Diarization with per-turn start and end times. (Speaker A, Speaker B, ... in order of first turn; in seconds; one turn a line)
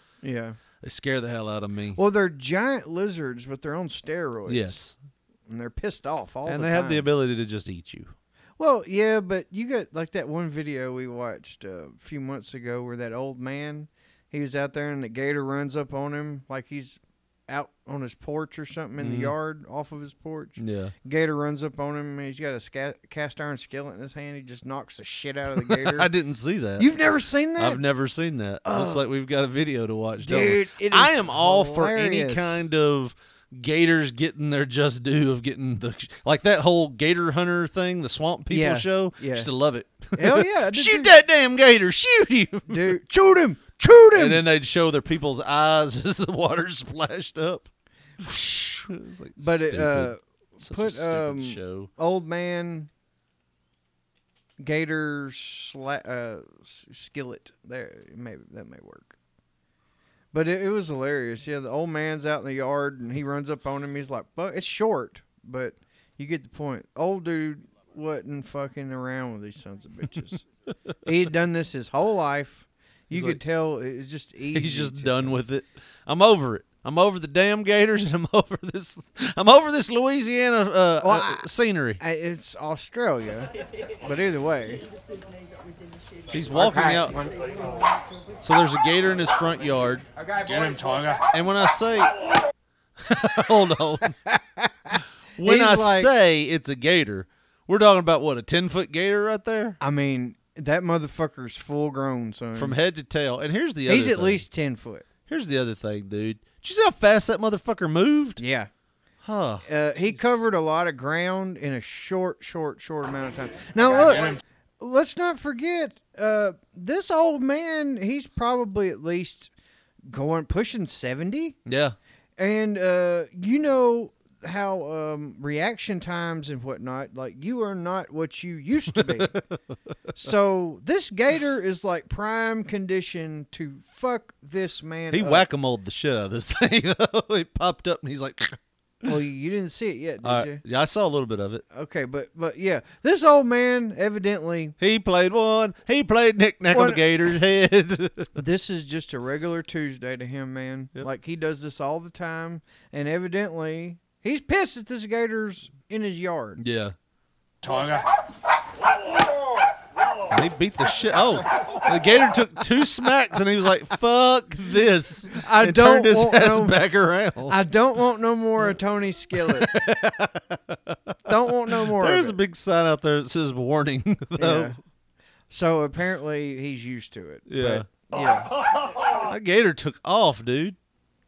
Speaker A: 0.2-0.6
Speaker B: 0.8-2.0
Speaker A: 2.0-4.8
Speaker B: 4.5-5.0
Speaker A: 5.5-7.1
Speaker B: 6.5-8.1
Speaker A: 8.6-26.1
Speaker B: 19.0-19.4
Speaker B: 20.6-20.9
Speaker B: 25.6-26.9
Speaker A: 26.8-27.8
Speaker B: 27.6-43.0
Speaker A: 28.7-29.0
Speaker A: 30.2-32.6
Speaker A: 38.5-39.5
Speaker A: 40.1-41.1
Speaker A: 42.7-44.5
Speaker B: 44.1-47.7
Speaker A: 48.2-48.8
Speaker B: 48.9-51.9
Speaker A: 49.4-52.9
Speaker A: 54.6-59.1
Speaker A: 60.3-70.4
Speaker A: 71.0-75.4
Speaker B: 73.1-73.4
Speaker B: 74.5-82.0
Speaker A: 81.0-81.5
Speaker A: 82.0-83.5
Speaker A: 84.0-84.8
Speaker B: 86.3-87.2
Speaker B: 88.4-90.1
Speaker B: 91.3-92.1
Speaker B: 93.0-94.2
Speaker A: 94.3-96.1
Speaker B: 95.4-99.8
Speaker A: 99.8-102.8
Speaker B: 102.5-104.5
Speaker A: 103.9-105.1
Speaker B: 105.3-108.4
Speaker A: 108.4-108.7
Speaker B: 109.2-110.3
Speaker A: 109.7-119.5
Speaker A: 120.1-121.6
Speaker B: 121.7-122.0
Speaker A: 122.4-129.4
Speaker B: 128.9-129.4
Speaker A: 130.1-135.4
Speaker B: 135.1-139.1
Speaker A: 139.1-140.6
Speaker B: 140.2-141.6
Speaker A: 141.7-144.8
Speaker B: 144.8-148.3
Speaker A: 146.7-147.1
Speaker A: 148.4-156.6
Speaker B: 156.6-156.9
Speaker B: 160.3-167.6
Speaker A: 165.3-166.8
Speaker A: 167.5-169.8
Speaker B: 169.4-171.2
Speaker A: 171.3-172.4
Speaker B: 171.7-174.8
Speaker A: 174.4-174.8
Speaker A: 175.5-178.5
Speaker B: 177.5-177.9
Speaker B: 179.3-180.8